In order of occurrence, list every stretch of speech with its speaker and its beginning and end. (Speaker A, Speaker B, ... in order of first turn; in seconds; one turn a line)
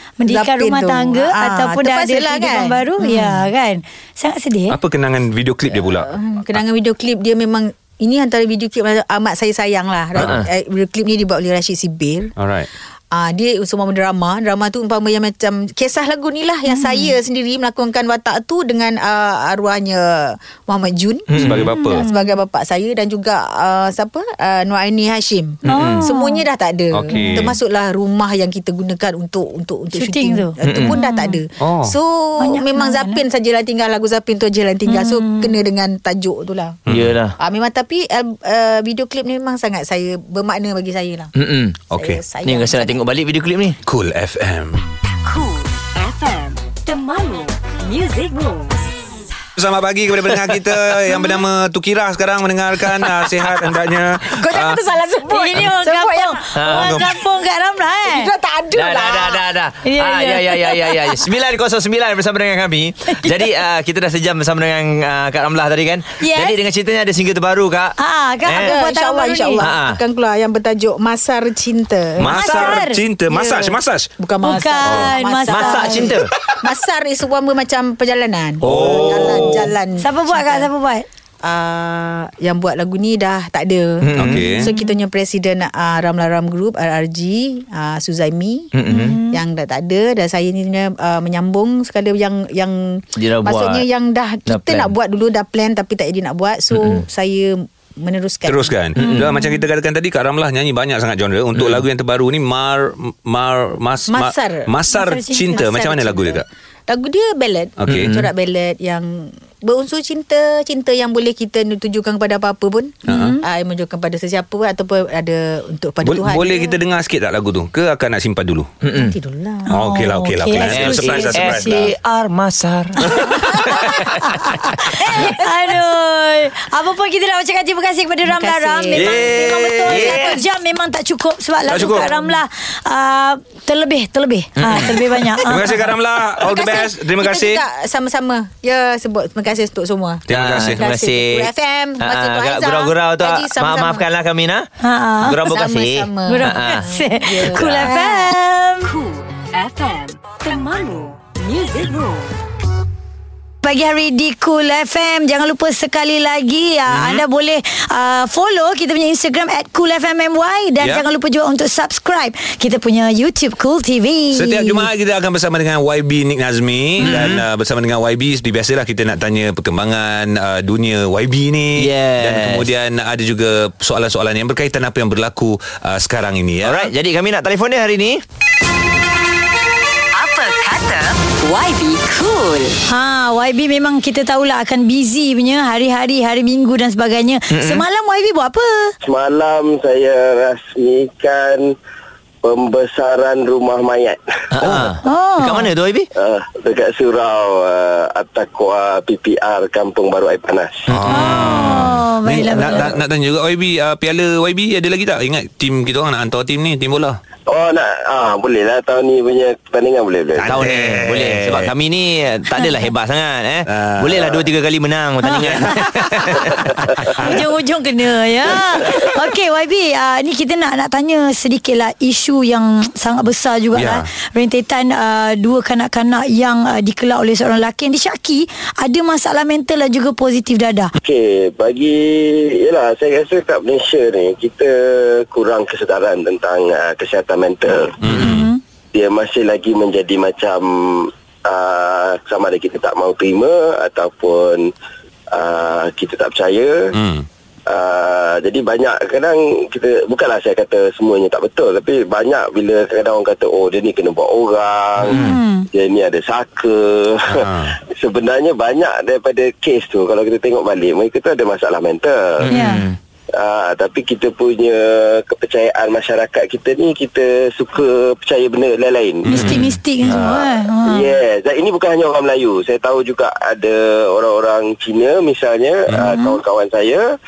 Speaker A: 0.2-4.8
Speaker B: 0.3-3.5
Speaker C: 4.7-6.1
Speaker B: 5.7-12.3
Speaker D: 10.2-10.5
Speaker C: 12.4-12.7
Speaker B: 13.1-36.8
Speaker A: 16.7-17.1
Speaker D: 21.3-21.7
Speaker C: 21.4-22.0
Speaker A: 21.7-22.3
Speaker A: 25.6-26.4
Speaker D: 25.6-26.0
Speaker C: 26.9-27.6
Speaker A: 27.1-27.4
Speaker A: 29.9-31.4
Speaker D: 30.6-30.9
Speaker C: 31.6-31.9
Speaker A: 32.4-33.2
Speaker A: 34.9-35.5
Speaker C: 36.9-37.1
Speaker D: 36.9-37.3
Speaker B: 37.4-41.3
Speaker D: 41.3-41.8
Speaker C: 41.9-42.2
Speaker B: 41.9-43.0
Speaker D: 42.4-43.8
Speaker C: 43.8-44.8
Speaker E: 45.2-48.9
Speaker C: 49.6-54.8
Speaker D: 50.3-50.8
Speaker B: 54.2-57.0
Speaker A: 55.3-58.3
Speaker D: 56.5-57.0
Speaker C: 56.7-57.1
Speaker B: 58.0-59.4
Speaker D: 58.7-68.7
Speaker A: 59.8-61.2
Speaker A: 66.2-66.6
Speaker A: 68.0-69.6
Speaker B: 68.6-80.7
Speaker D: 69.6-70.0
Speaker C: 72.2-74.1
Speaker A: 72.3-73.0
Speaker A: 74.4-76.1
Speaker D: 75.5-76.3
Speaker D: 78.6-79.7
Speaker C: 78.6-79.7
Speaker A: 80.0-81.0
Speaker B: 81.4-88.7
Speaker D: 84.0-84.5
Speaker C: 84.2-84.7
Speaker D: 88.7-89.2
Speaker A: 88.9-89.4
Speaker B: 89.3-98.7
Speaker D: 93.2-93.8
Speaker D: 94.5-94.9
Speaker D: 96.7-97.0
Speaker C: 98.5-106.4
Speaker D: 99.0-99.3
Speaker A: 99.0-99.6
Speaker D: 101.5-101.8
Speaker B: 104.1-104.7
Speaker A: 104.9-105.5
Speaker B: 105.5-116.8
Speaker C: 107.8-108.1
Speaker D: 107.9-108.3
Speaker C: 113.1-113.4
Speaker A: 113.1-113.4
Speaker C: 116.0-118.7
Speaker D: 118.8-119.2
Speaker B: 118.9-119.7
Speaker A: 119.7-121.9
Speaker C: 119.7-121.9
Speaker D: 120.5-125.1
Speaker C: 123.1-123.8
Speaker A: 123.2-135.8
Speaker B: 128.2-129.3
Speaker C: 128.9-130.2
Speaker D: 129.8-130.4
Speaker C: 131.7-132.2
Speaker D: 134.6-135.2
Speaker C: 135.5-137.6
Speaker B: 136.4-144.0
Speaker C: 140.3-140.8
Speaker D: 140.3-144.7
Speaker A: 144.8-145.4
Speaker D: 145.2-146.9
Speaker B: 145.4-148.3
Speaker A: 146.3-148.9
Speaker D: 147.4-147.9
Speaker E: 148.8-152.3
Speaker A: 153.6-164.9
Speaker C: 156.9-157.2
Speaker C: 164.3-176.9
Speaker D: 167.0-167.4
Speaker D: 171.8-172.7
Speaker D: 176.6-178.2
Speaker E: 180.1-182.8
Speaker A: 182.9-188.9
Speaker D: 187.5-187.8
Speaker F: 189.0-191.7
Speaker F: 192.4-194.2
Speaker D: 194.5-196.1
Speaker C: 194.6-194.9
Speaker A: 195.0-195.7
Speaker F: 196.1-200.9
Speaker C: 200.9-207.2
Speaker D: 200.9-201.8
Speaker A: 201.1-202.9
Speaker F: 207.5-210.6
Speaker C: 210.4-211.7
Speaker D: 210.4-217.1
Speaker C: 213.7-214.4
Speaker A: 215.2-216.1
Speaker C: 215.3-217.4
Speaker A: 217.2-230.9
Speaker C: 223.7-224.1
Speaker F: 231.0-238.0
Speaker C: 238.0-238.5
Speaker D: 238.1-238.4
Speaker A: 238.1-238.6
Speaker F: 238.9-244.7
Speaker F: 245.3-246.9
Speaker C: 246.9-247.2
Speaker F: 247.7-262.5
Speaker D: 255.0-255.4
Speaker A: 255.1-255.7
Speaker C: 257.3-257.7
Speaker D: 262.4-263.0
Speaker A: 262.5-262.8
Speaker F: 263.3-269.4
Speaker C: 269.2-270.1
Speaker A: 269.3-271.1
Speaker D: 269.3-269.6
Speaker F: 270.1-277.1
Speaker C: 275.9-276.2